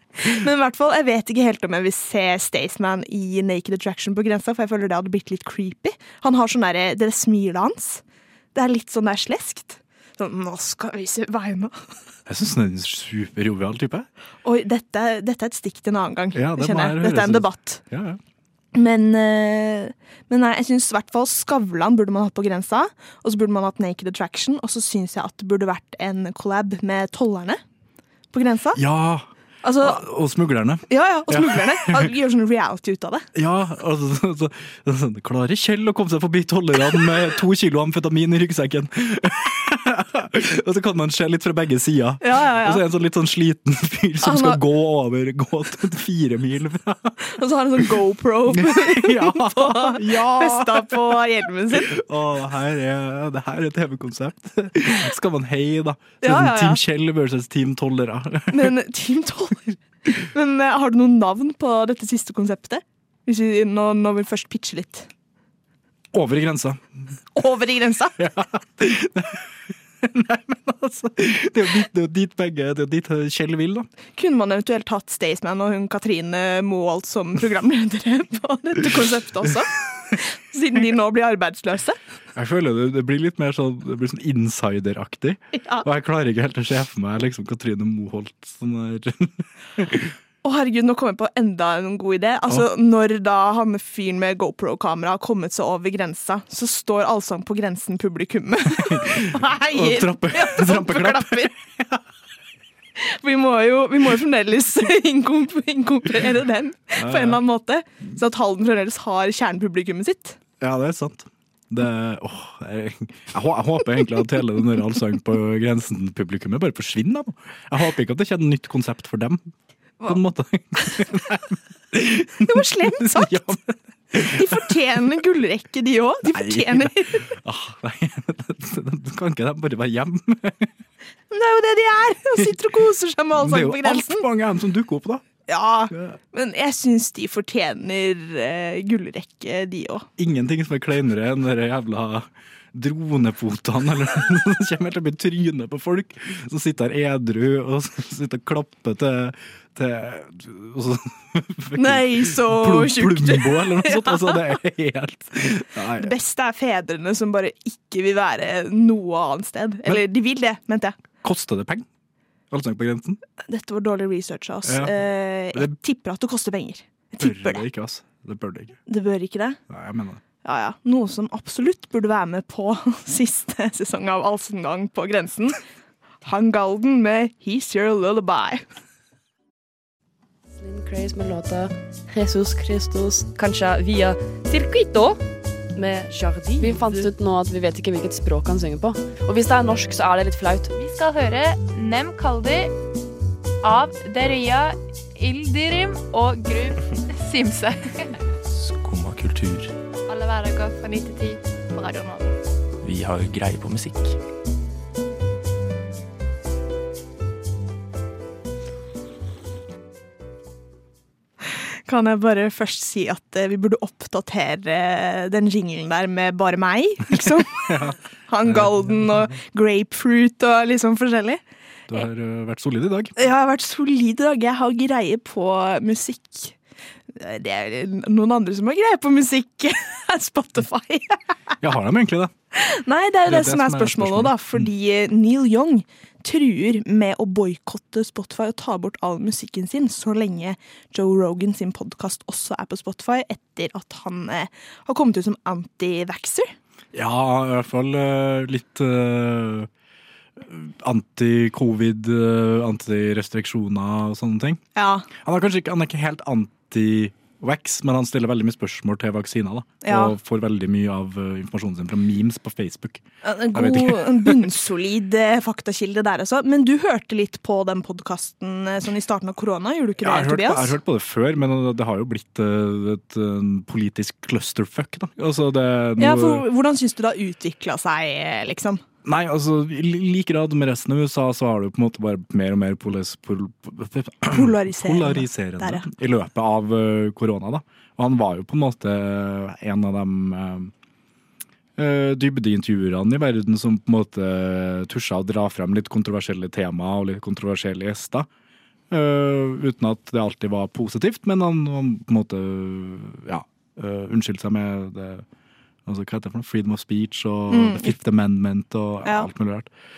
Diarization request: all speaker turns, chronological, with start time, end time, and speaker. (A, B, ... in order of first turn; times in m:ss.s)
0:00.2-0:08.0 A
0:08.5-0:11.7 A
0:12.3-0:14.1 B
0:14.4-0:17.8 A
0:16.4-0:18.2 B
0:18.7-0:27.6 A
0:28.3-0:28.8 A
0:28.8-0:29.3 B
0:29.6-0:30.0 A
0:29.8-0:32.1 B
0:30.9-0:33.3 A
0:33.4-0:47.2 B
0:42.2-0:42.8 A
0:44.2-0:44.6 A
0:47.2-0:52.0 A
0:48.5-0:58.7 B
0:56.2-0:56.8 A
0:58.5-1:05.1 A
1:06.1-1:06.8 B
1:07.4-1:08.2 A
1:08.2-1:09.5 B
1:10.0-1:13.9 B
1:14.2-1:22.0 A
1:22.4-1:30.1 B
1:25.6-1:25.9 A
1:30.4-1:41.5 A
1:38.9-1:42.0 B
1:43.0-1:50.4 A
1:47.0-1:47.4 B
1:50.6-1:59.5 B
2:00.1-2:04.6 B
2:02.4-2:03.4 A
2:04.2-2:07.3 A
2:06.3-2:10.7 B
2:11.3-2:14.2 A
2:13.4-2:15.2 B
2:15.5-2:20.1 A
2:20.2-2:36.1 B
2:31.8-2:34.6 A
2:36.0-2:41.0 A
2:41.2-2:41.9 B
2:42.5-2:43.2 B
2:43.5-2:47.6 A
2:44.6-2:45.0 B
2:47.2-2:48.8 B
2:48.9-2:49.6 A
2:49.7-2:50.2 B
2:50.4-2:55.6 A
2:56.2-2:58.6 A
3:00.5-3:05.2 C
3:05.8-3:10.7 C
3:10.7-3:12.8 D
3:13.6-3:18.1 D
3:18.5-3:19.7 E
3:20.1-3:22.4 D
3:22.8-3:24.2 E
3:31.9-3:37.8 A
3:37.1-3:39.2 B
3:38.3-3:41.4 A
3:41.9-3:43.1 B
3:43.2-3:46.6 A
3:47.2-3:51.2 A
3:51.6-3:52.3 B
3:52.5-4:06.5 A
3:53.3-3:54.7 B
4:06.9-4:09.7 B
4:10.4-4:14.6 B
4:14.8-4:15.1 A
4:15.2-4:24.5 B
4:19.8-4:20.1 A
4:23.2-4:30.8 A
4:30.0-4:36.4 B
4:36.0-4:38.8 A
4:39.0-4:50.7 B
4:44.3-4:45.9 A
4:51.8-4:58.3 B
4:58.9-5:05.2 B
5:05.9-5:09.7 B
5:07.5-5:08.0 A